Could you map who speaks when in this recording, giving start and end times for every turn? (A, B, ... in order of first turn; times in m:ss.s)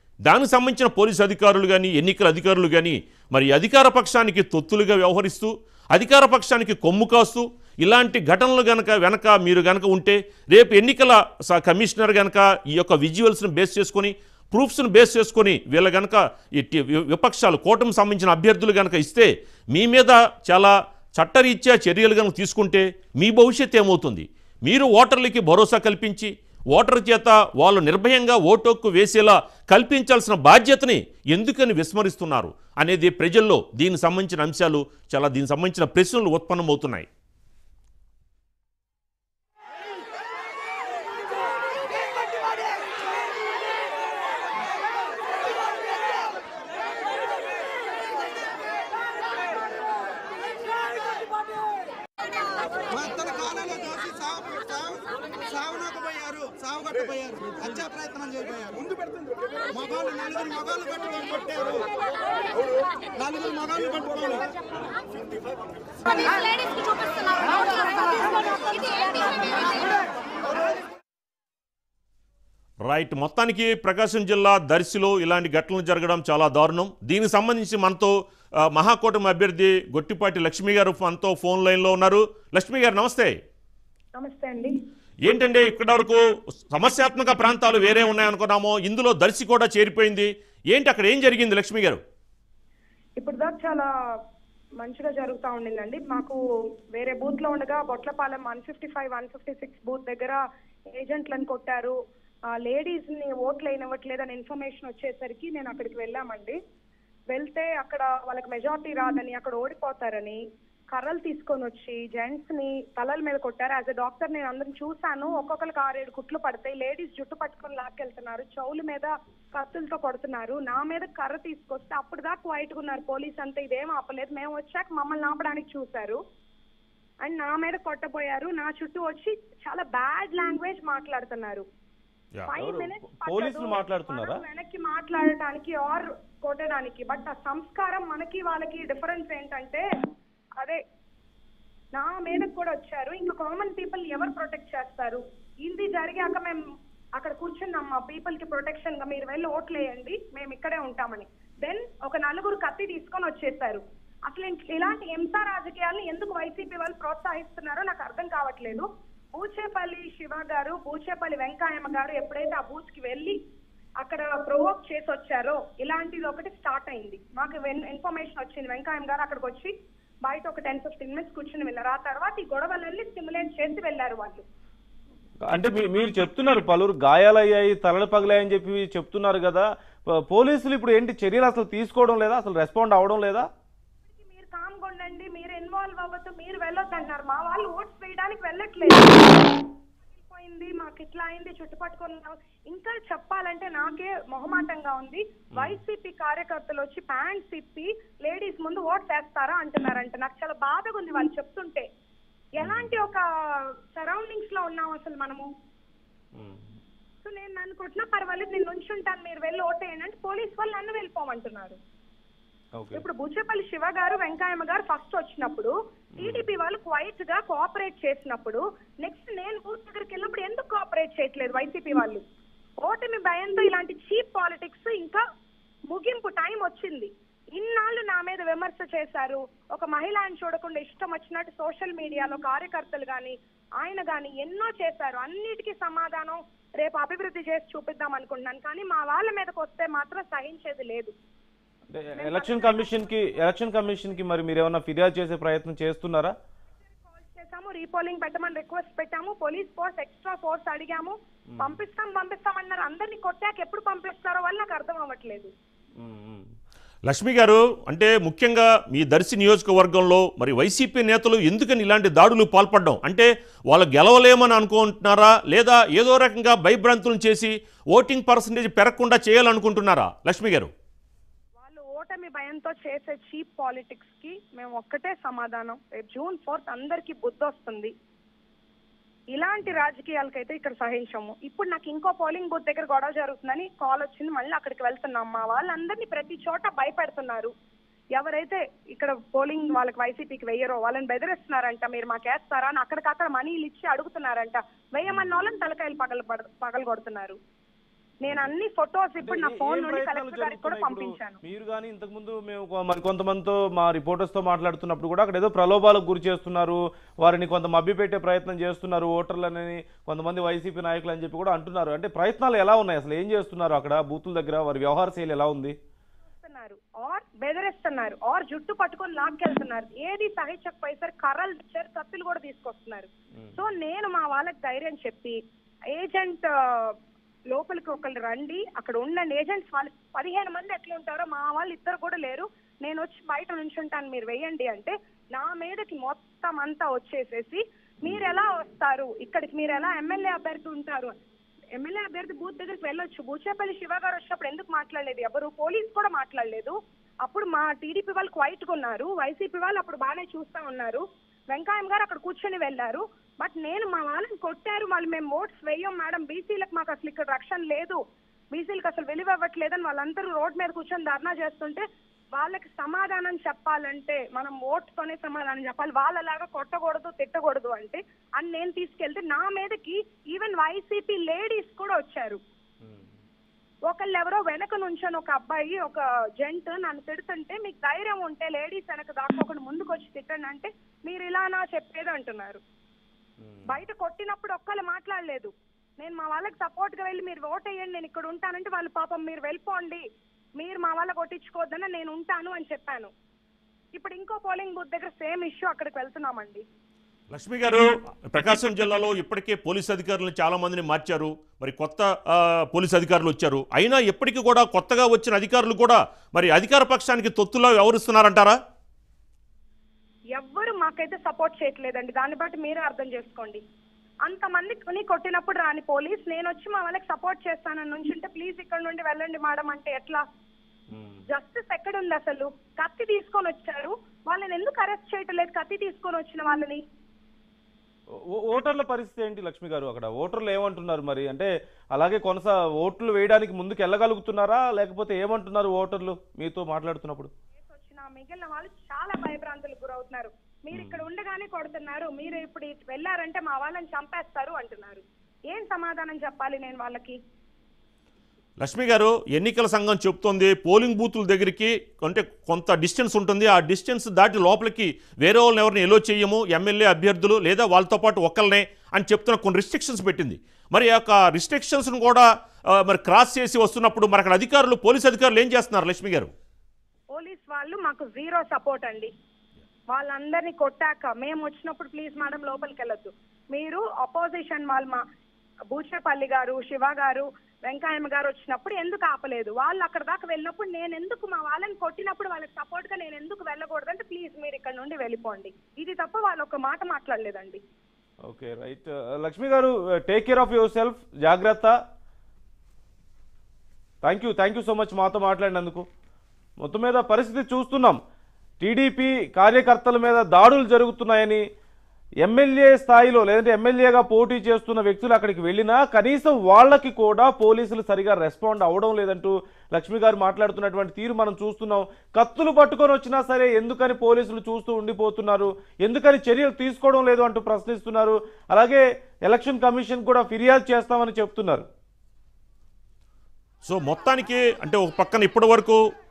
0:00.2-0:37.1 A
0:53.2-0:53.7 B
0:56.2-0:58.7 B
1:00.2-1:01.8 B
1:03.6-1:04.0 B
1:12.8-1:18.1 A
1:18.7-1:23.3 A
1:24.2-1:24.7 C
1:25.2-1:26.2 A
1:26.7-1:32.0 A
1:33.2-1:33.9 C
1:34.8-1:36.4 C
1:36.9-1:40.4 C
1:40.9-1:42.0 C
1:42.6-1:46.6 C
1:47.3-1:50.4 C
1:50.9-2:06.2 C
2:07.2-2:11.6 C
2:12.5-2:19.8 C
2:12.6-2:14.4 D
2:21.9-2:26.6 C
2:27.2-2:43.4 C
2:44.0-2:49.7 C
2:50.2-2:54.4 C
2:55.4-3:03.5 D
3:04.1-3:09.6 C
3:10.1-3:21.8 C
3:22.6-3:25.5 C
3:22.6-3:23.0 D
3:26.4-3:26.6 D
3:27.2-3:31.8 C
3:32.8-3:33.0 D
3:32.9-3:42.2 C
3:36.2-3:36.5 D
3:42.8-3:45.2 C
3:45.9-4:01.1 C
4:01.9-4:06.3 D
4:02.2-4:03.1 C
4:07.0-4:15.5 C
4:11.5-4:11.8 D
4:16.0-4:16.5 D
4:17.1-4:30.7 A
4:31.6-4:37.9 C
4:39.3-4:47.5 C
4:48.2-4:57.4 C
4:58.2-5:01.4 C
4:58.3-4:58.5 D
4:59.2-5:15.8 D
5:16.3-5:25.4 C
5:25.9-5:27.0 C
5:27.5-5:41.1 C
5:41.8-5:58.0 C
5:58.5-6:01.8 C
6:02.3-6:12.4 C
6:12.8-6:13.1 D
6:13.9-6:22.6 C
6:23.4-6:23.8 D
6:23.7-6:30.0 C
6:30.6-6:33.1 C
6:33.9-6:36.6 C
6:37.3-6:48.6 A
6:50.4-6:53.6 C
6:54.2-7:00.2 C
7:00.9-7:01.2 D
7:01.3-7:06.8 C
7:08.3-7:17.3 D
7:17.6-7:27.2 C
7:28.6-7:46.3 A
7:47.1-7:49.1 C
7:49.9-7:55.0 C
7:55.7-8:07.6 C
8:08.3-8:11.8 D
8:14.0-8:15.8 D
8:16.6-8:18.0 D
8:18.6-8:21.4 D
8:22.2-8:41.6 D
8:43.6-8:45.8 A